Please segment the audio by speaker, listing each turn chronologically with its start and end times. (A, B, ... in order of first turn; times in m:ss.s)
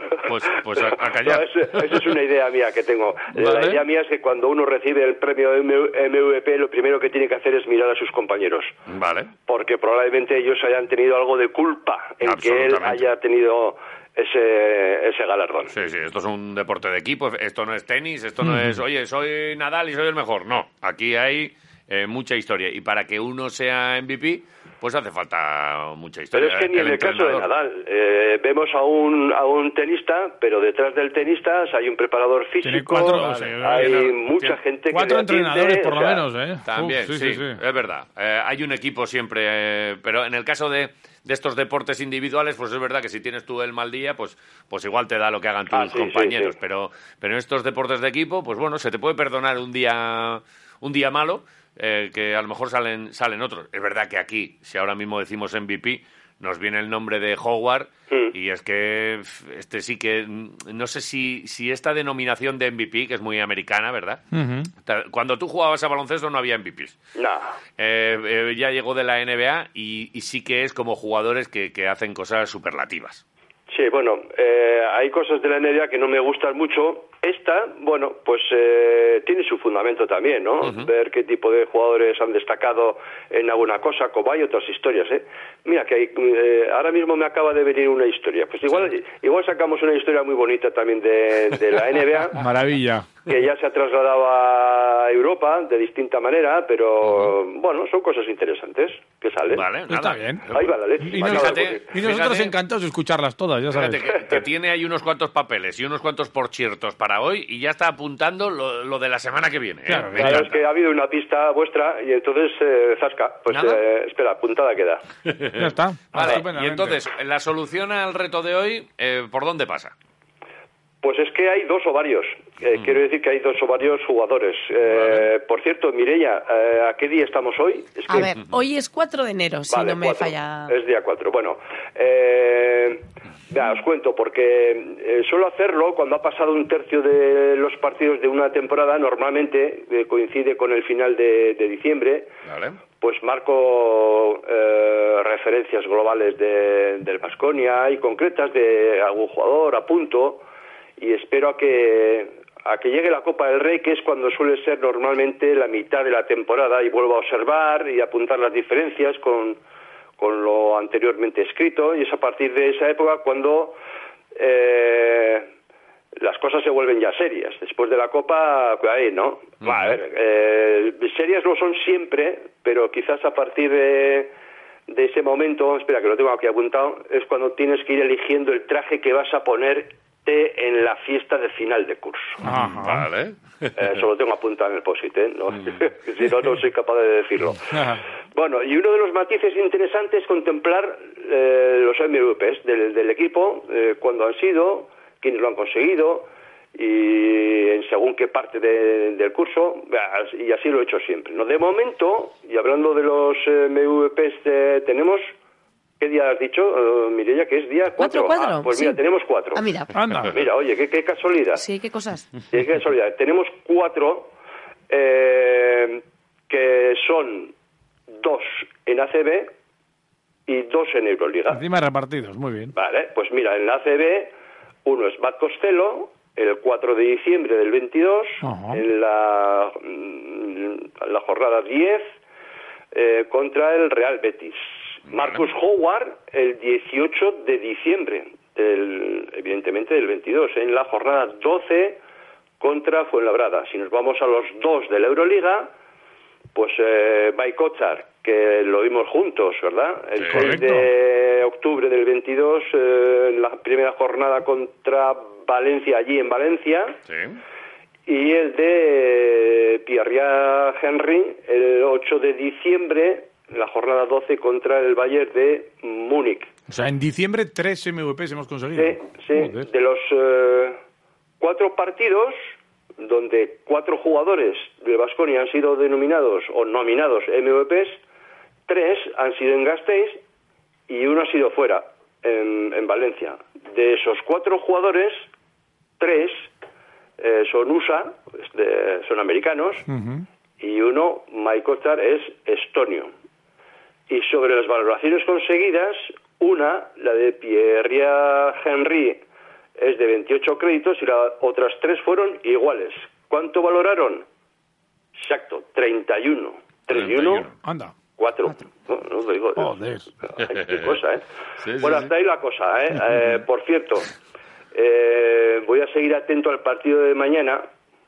0:00.2-0:02.2 A
0:00.8-0:08.7 B
0:03.3-0:03.8 A
0:08.9-0:09.3 A
0:09.5-0:15.7 B
0:12.2-0:13.1 A
0:15.7-0:27.5 A
0:18.4-0:18.8 C
0:26.3-0:36.2 B
0:32.6-0:34.0 C
0:33.2-0:34.6 A
0:34.9-0:37.6 C
0:36.6-1:04.2 A
0:45.7-0:46.6 B
1:04.3-1:04.7 C
1:04.8-1:07.0 A
1:07.2-1:07.5 B
1:07.8-1:13.2 A
1:13.7-1:32.4 B
1:20.6-1:20.9 A
1:32.4-1:33.1 C
1:33.3-1:39.6 B
1:37.0-1:37.4 A
1:39.5-1:42.5 A
1:39.9-1:40.4 C
1:40.5-1:41.9 B
1:41.0-1:44.0 C
1:43.7-1:50.6 A
1:49.9-1:50.5 C
1:50.2-1:55.0 B
1:53.5-1:53.8 A
1:55.2-1:59.9 A
1:55.6-1:57.0 C
2:01.0-2:08.3 B
2:02.7-2:03.0 A
2:04.8-2:05.3 A
2:08.1-2:10.7 D
2:09.7-2:22.3 B
2:22.4-2:22.8 A
2:23.0-2:30.4 B
2:31.0-2:39.6 B
2:40.2-2:43.8 B
2:44.4-2:45.5 B
2:46.2-2:54.3 B
2:49.6-2:50.0 A
2:54.9-3:02.4 B
3:02.4-3:03.9 A
3:02.4-3:03.1 C
3:03.8-3:07.6 B
3:05.5-3:05.8 A
3:07.7-3:08.0 C
3:08.4-3:25.3 B
3:26.0-3:29.7 B
3:28.0-3:29.0 D
3:29.6-3:29.9 D
3:29.9-3:30.4 C
3:30.3-3:31.6 B
3:31.6-3:32.3 D
3:32.5-3:34.3 B
3:34.9-3:37.5 B
3:38.2-3:39.5 B
3:40.5-3:41.6 B
3:41.5-3:42.7 C
3:42.8-3:44.3 B
3:44.8-3:52.1 B
3:48.4-3:48.8 C
3:52.9-3:54.6 B
3:55.1-3:55.5 A
3:55.1-4:02.0 B
4:02.6-4:05.7 B
4:06.6-4:17.0 B
4:10.2-4:10.6 A
4:10.3-4:10.9 C
4:17.1-4:17.4 A
4:18.1-4:26.5 B
4:26.7-4:29.7 C
4:28.8-4:30.8 B
4:31.4-4:32.5 B
4:33.0-4:38.0 B
4:38.7-4:40.2 B
4:40.9-4:45.3 B
4:46.0-4:46.5 B
4:47.2-4:49.9 B
4:49.9-4:50.3 C
4:50.6-4:53.1 B
4:54.1-4:59.2 B
4:59.8-5:04.2 B
5:05.2-5:07.5 B
5:06.9-5:07.5 A
5:07.6-5:08.0 C
5:08.2-5:09.8 B
5:09.6-5:10.1 C
5:10.3-5:11.2 B
5:10.4-5:11.0 A
5:11.6-5:12.1 A
5:11.8-5:14.1 B
5:14.7-5:17.6 B